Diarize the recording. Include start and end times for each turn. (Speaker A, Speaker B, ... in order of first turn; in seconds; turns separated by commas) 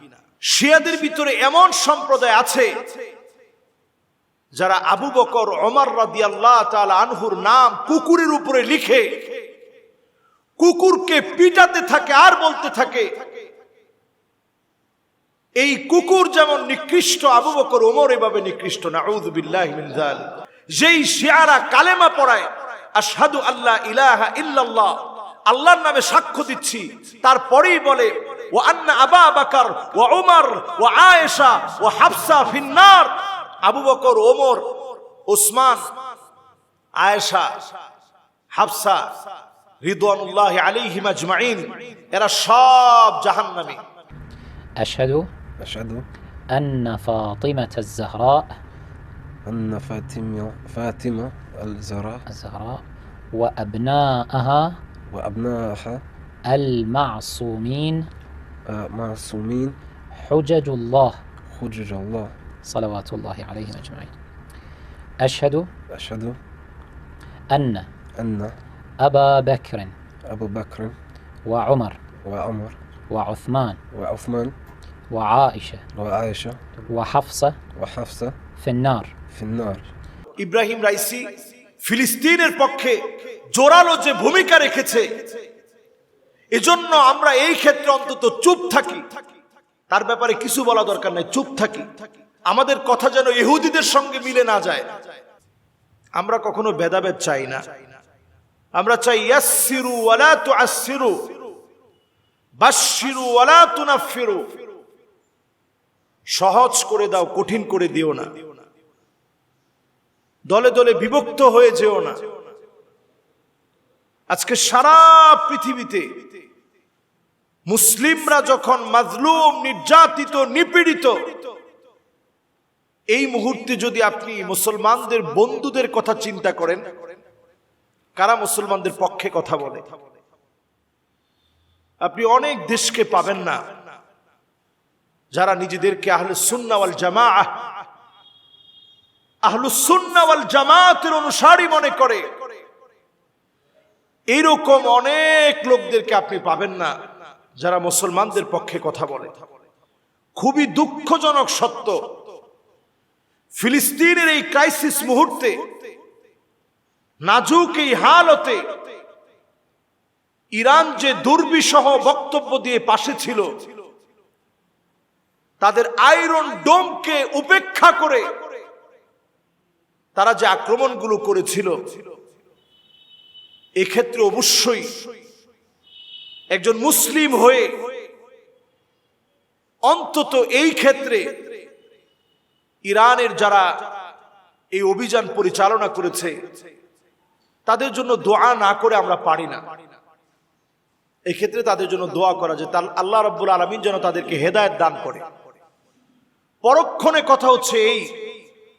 Speaker A: 0.5-2.7, Speaker A: 4.5-9.1, Speaker A: 10.6-13.1, Speaker A: 15.6-20.2, Speaker A: 20.8-22.4, Speaker A: 23.0-35.8, Speaker A: 37.0-37.5, Speaker A: 38.5-39.1, Speaker A: 39.8-43.8, Speaker B: 44.8-45.3, Speaker C: 45.6-46.0, Speaker B: 46.5-48.5, Speaker C: 49.5-52.2, Speaker B: 52.3-52.8, Speaker B: 53.3-54.8, Speaker C: 55.1-56.0, Speaker B: 56.5-58.0, Speaker C: 58.7-59.8, Speaker B: 60.1-61.2, Speaker C: 61.5-62.3, Speaker B: 62.6-64.1, Speaker B: 65.2-65.7, Speaker C: 65.9-66.4, Speaker B: 67.5-67.9, Speaker C: 68.2-68.5, Speaker B: 69.0-69.9, Speaker C: 70.3-71.0, Speaker B: 71.5-72.0, Speaker C: 72.2-72.7, Speaker B: 73.1-73.8, Speaker C: 73.9-74.5, Speaker B: 75.1-75.8, Speaker C: 75.9-76.6, Speaker B: 76.9-77.6, Speaker C: 77.7-78.4, Speaker B: 78.6-79.1, Speaker C: 79.3-79.9, Speaker A: 80.4-81.2, Speaker A: 81.8-83.0, Speaker A: 83.5-85.3, Speaker A: 86.5-89.1, Speaker A: 89.9-91.9, Speaker A: 92.5-94.9, Speaker A: 96.2-97.6, Speaker A: 98.8-101.2, Speaker A: 102.6-104.5, Speaker A: 106.4-108.3, Speaker A: 110.5-112.2, Speaker A: 114.3-116.0, Speaker A: 117.7-121.4, Speaker A: 123.1-126.8, Speaker A: 128.2-129.9, Speaker A: 132.0-133.6, Speaker A: 135.3-137.7, Speaker A: 139.4-142.2, Speaker A: 144.3-146.9, Speaker A: 147.6-149.3, Speaker A: 150.4-152.0, Speaker A: 153.6-155.6, Speaker A: 157.2-158.6, Speaker A: 160.6-163.5, Speaker A: 165.6-168.2, Speaker A: 170.2-171.7, Speaker A: 173.8-174.9, Speaker A: 176.6-177.7, Speaker A: 179.9-181.3, Speaker A: 182.9-183.6, Speaker A: 184.7-186.3, Speaker A: 187.7-189.6, Speaker A: 191.3-195.2, Speaker A: 196.6-198.0